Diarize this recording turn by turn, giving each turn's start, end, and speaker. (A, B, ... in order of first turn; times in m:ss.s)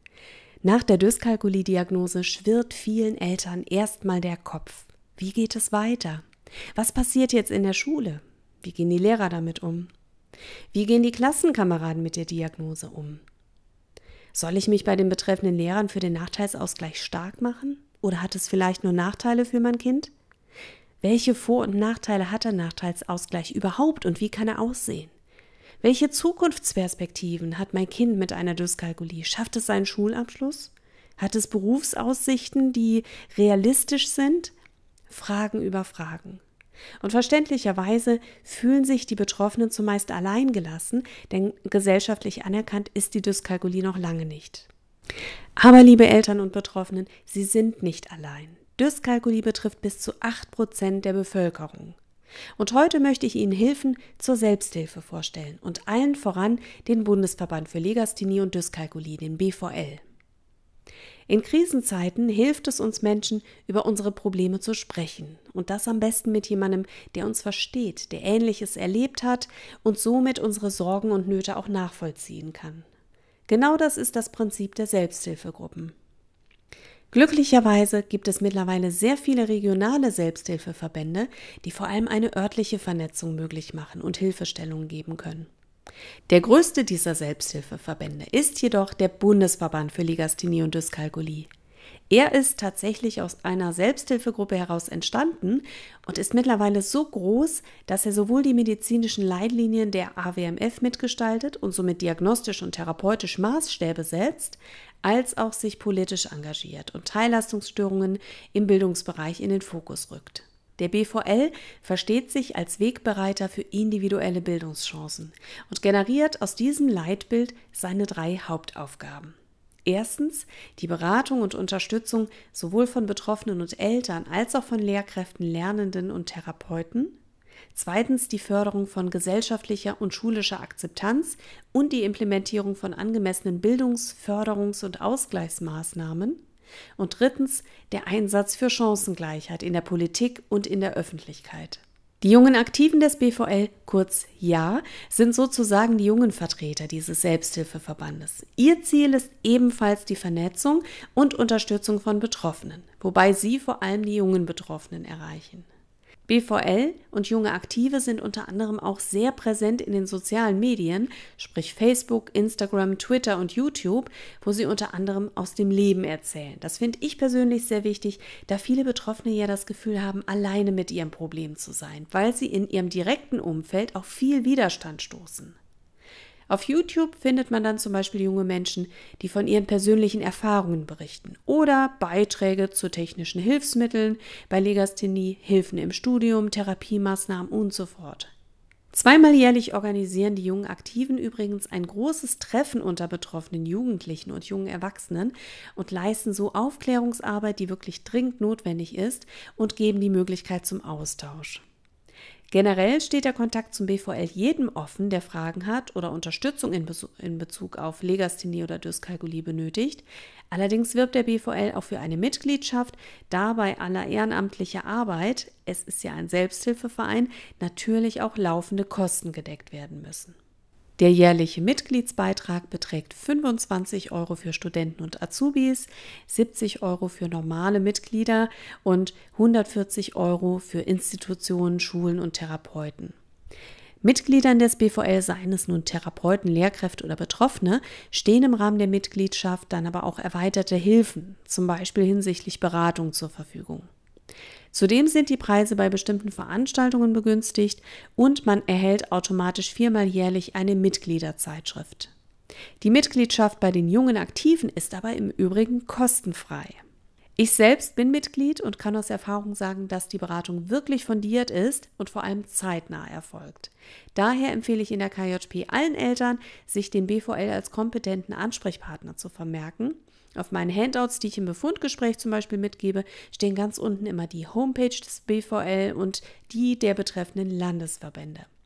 0:00.6-0:09.9 A
0:10.7-0:13.2 A
0:14.3-0:20.1 A
0:21.0-0:25.1 A
0:25.8-0:34.5 A
0:35.1-0:36.4 A
0:37.0-0:44.7 A
0:45.6-0:52.0 A
0:52.6-1:00.0 A
1:01.3-1:12.9 A
1:13.5-1:15.9 A
1:17.1-1:25.5 A
1:26.3-1:31.5 A
1:32.1-1:59.3 A
1:59.8-2:07.2 A
2:07.7-2:16.4 A
2:17.0-2:35.7 A
2:36.3-2:55.6 A
2:56.5-3:08.3 A
3:08.9-3:21.6 A
3:22.5-3:40.4 A
3:41.0-3:53.2 A
3:54.0-4:03.9 A
4:04.7-4:12.1 A
4:12.8-4:16.8 A
4:17.4-4:38.5 A